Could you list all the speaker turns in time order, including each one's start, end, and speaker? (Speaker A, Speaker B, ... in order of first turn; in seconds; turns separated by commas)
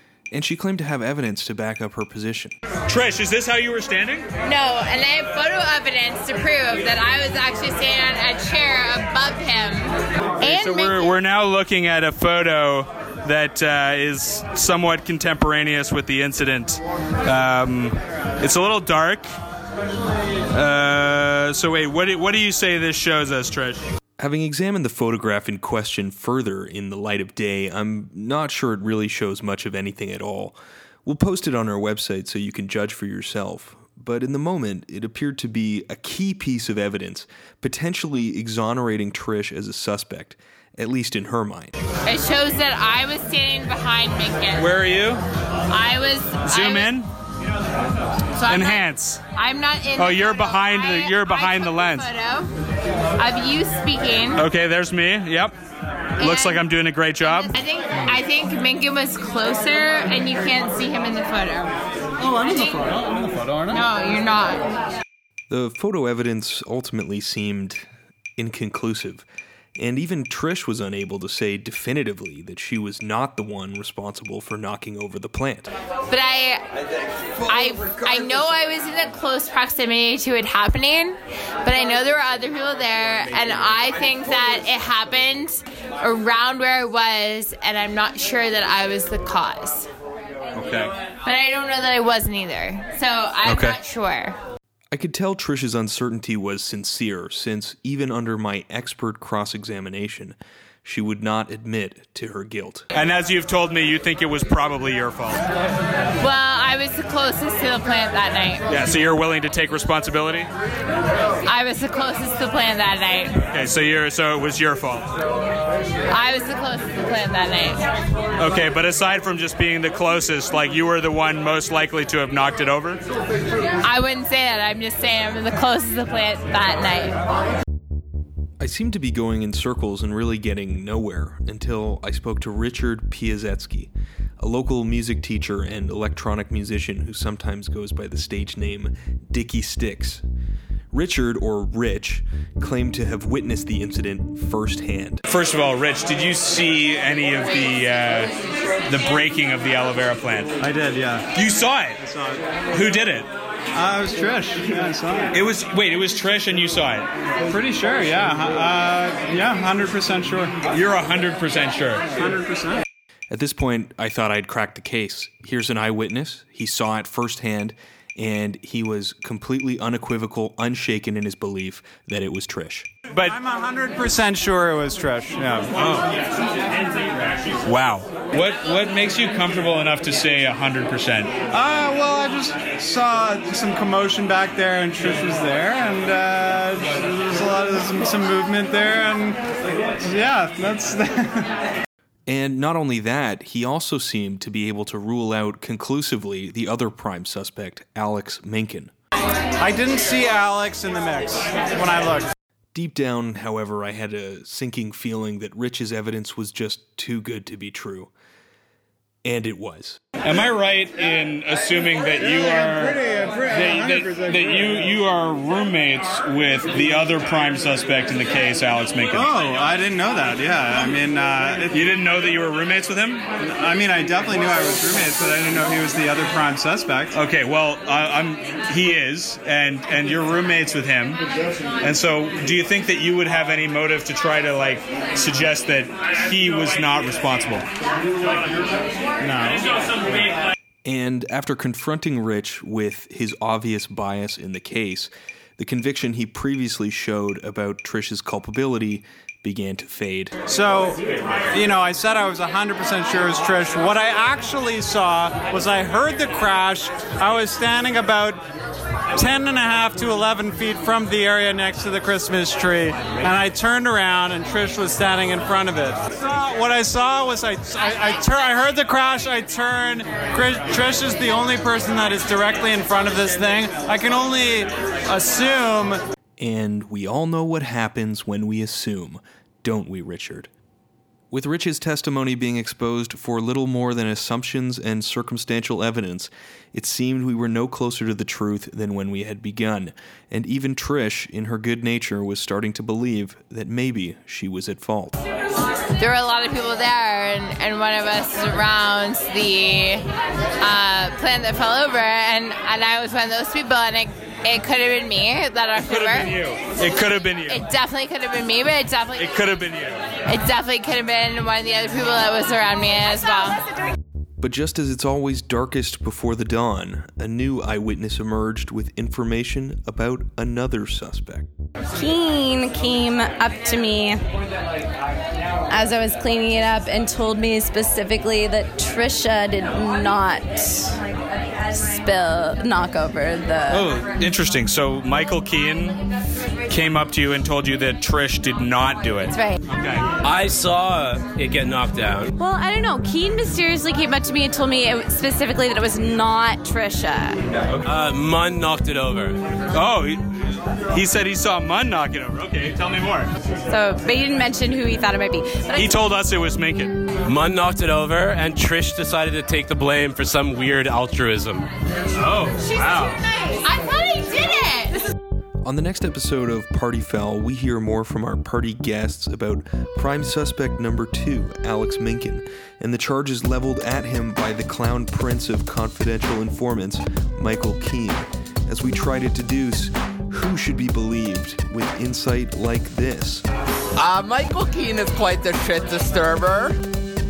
Speaker A: 0.3-2.5, Speaker B: 2.9-4.3, Speaker C: 4.4-11.1, Speaker B: 10.4-19.2, Speaker B: 20.5-23.9, Speaker A: 24.2-41.8, Speaker C: 42.0-44.7, Speaker B: 44.5-45.2, Speaker C: 45.7-46.9, Speaker B: 46.5-47.1, Speaker C: 48.4-52.5, Speaker B: 48.5-49.2, Speaker B: 50.0-52.0, Speaker C: 53.2-54.4, Speaker B: 54.3-55.5, Speaker B: 56.2-57.5, Speaker C: 56.2-56.6, Speaker C: 57.2-61.8, Speaker D: 62.2-63.8, Speaker C: 63.7-64.7, Speaker A: 65.5-67.8, Speaker A: 68.4-75.7, Speaker C: 76.1-76.6, Speaker C: 77.4-89.9, Speaker B: 90.5-90.9, Speaker C: 91.2-94.4, Speaker A: 93.5-93.7, Speaker A: 94.9-102.9, Speaker B: 102.9-105.4, Speaker C: 106.2-108.6, Speaker B: 108.7-110.5, Speaker C: 111.4-113.4, Speaker B: 113.4-115.1, Speaker C: 116.1-117.9, Speaker B: 118.4-123.0, Speaker C: 123.8-127.2, Speaker A: 128.6-140.2, Speaker A: 140.9-145.2, Speaker B: 145.3-148.3, Speaker B: 148.9-150.5, Speaker D: 150.6-151.3, Speaker B: 151.3-153.3, Speaker D: 153.7-155.3, Speaker B: 155.3-157.1, Speaker D: 157.4-160.6, Speaker B: 160.7-162.1, Speaker D: 162.1-162.8, Speaker A: 163.3-172.9, Speaker D: 173.2-175.7, Speaker B: 175.8-176.0, Speaker B: 177.6-181.3, Speaker D: 181.5-191.5, Speaker A: 192.3-198.9, Speaker D: 199.6-202.3, Speaker A: 202.7-208.1, Speaker A: 209.2-210.0, Speaker B: 210.2-219.4, Speaker D: 212.2-214.6, Speaker D: 219.1-221.8, Speaker B: 221.7-223.2, Speaker D: 223.4-227.1, Speaker B: 227.1-231.2, Speaker B: 231.8-237.7, Speaker D: 239.2-239.6, Speaker A: 240.8-250.4, Speaker D: 250.5-258.4, Speaker D: 259.1-276.0, Speaker A: 276.4-280.5, Speaker A: 281.3-295.1, Speaker C: 296.0-300.1, Speaker C: 300.6-306.3, Speaker B: 305.8-307.6, Speaker C: 307.5-309.3, Speaker B: 309.1-310.0, Speaker C: 310.2-313.6, Speaker A: 314.4-321.5, Speaker E: 321.9-324.2, Speaker E: 325.7-331.0, Speaker E: 331.6-333.9, Speaker B: 333.7-336.0, Speaker B: 336.7-340.0, Speaker C: 339.3-339.6, Speaker F: 340.2-342.3, Speaker E: 342.4-347.4, Speaker F: 347.8-349.4, Speaker B: 349.7-350.2, Speaker B: 350.9-353.3, Speaker E: 353.6-356.0, Speaker B: 355.7-357.0, Speaker F: 357.2-361.7, Speaker B: 362.2-363.2, Speaker C: 362.6-365.1, Speaker A: 365.6-383.4, Speaker G: 383.9-386.8